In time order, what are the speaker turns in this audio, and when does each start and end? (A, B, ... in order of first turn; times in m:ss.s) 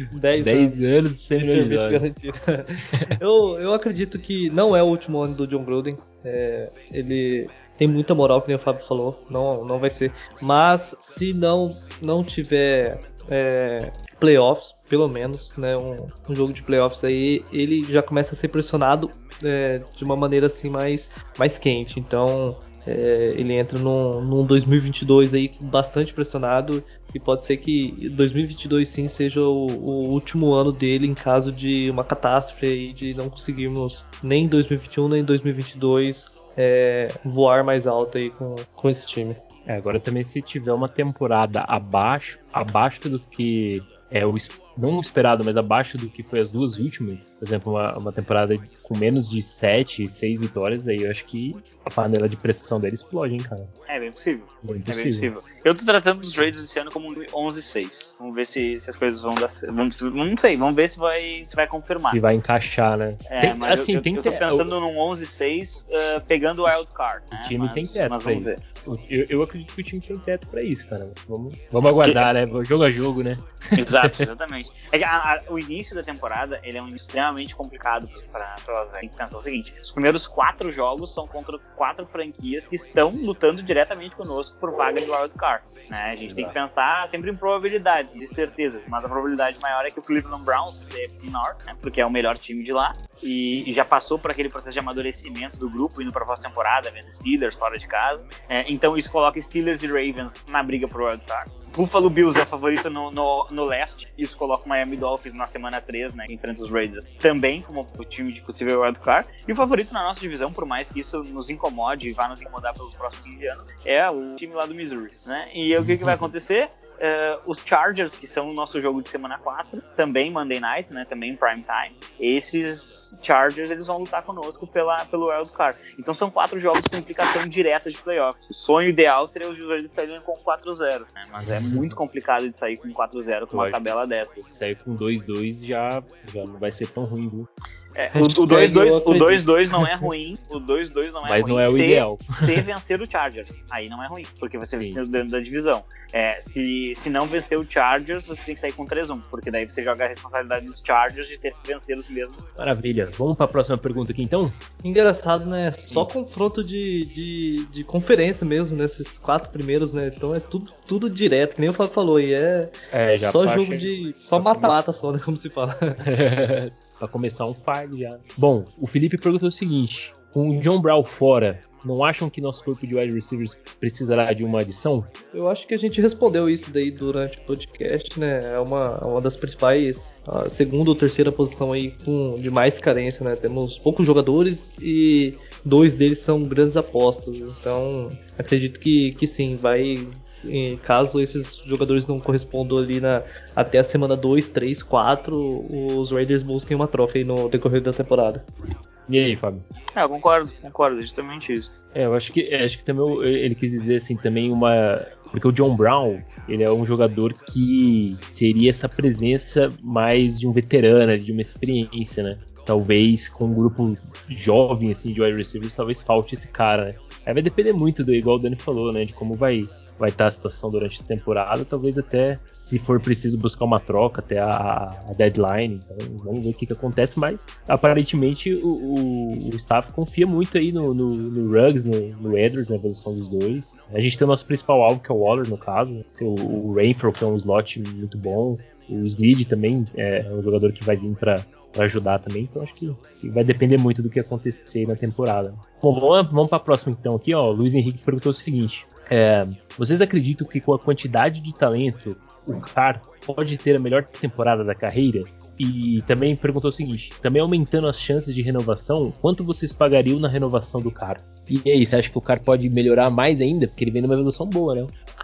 0:00.1-0:00.8 A
0:00.4-0:02.0 B
0:01.3-0:39.4 A
0:39.6-0:53.7 B
0:53.9-1:02.2 C
0:54.6-0:55.3 B
1:02.1-1:04.7 B
1:03.3-1:08.7 C
1:07.3-1:14.2 B
1:11.8-1:12.3 C
1:13.8-2:14.4 C
1:26.2-1:26.6 B
1:55.8-1:56.3 B
2:11.4-2:12.0 B
2:13.5-2:17.5 B
2:18.0-2:32.4 C
2:18.1-2:19.5 A
2:21.2-2:22.6 B
2:32.6-2:34.5 B
2:34.8-2:46.0 A
2:42.9-2:45.0 B
2:46.0-2:55.1 B
2:55.3-3:18.4 A
3:19.1-3:19.6 B
3:19.9-3:21.8 C
3:21.9-4:24.9 B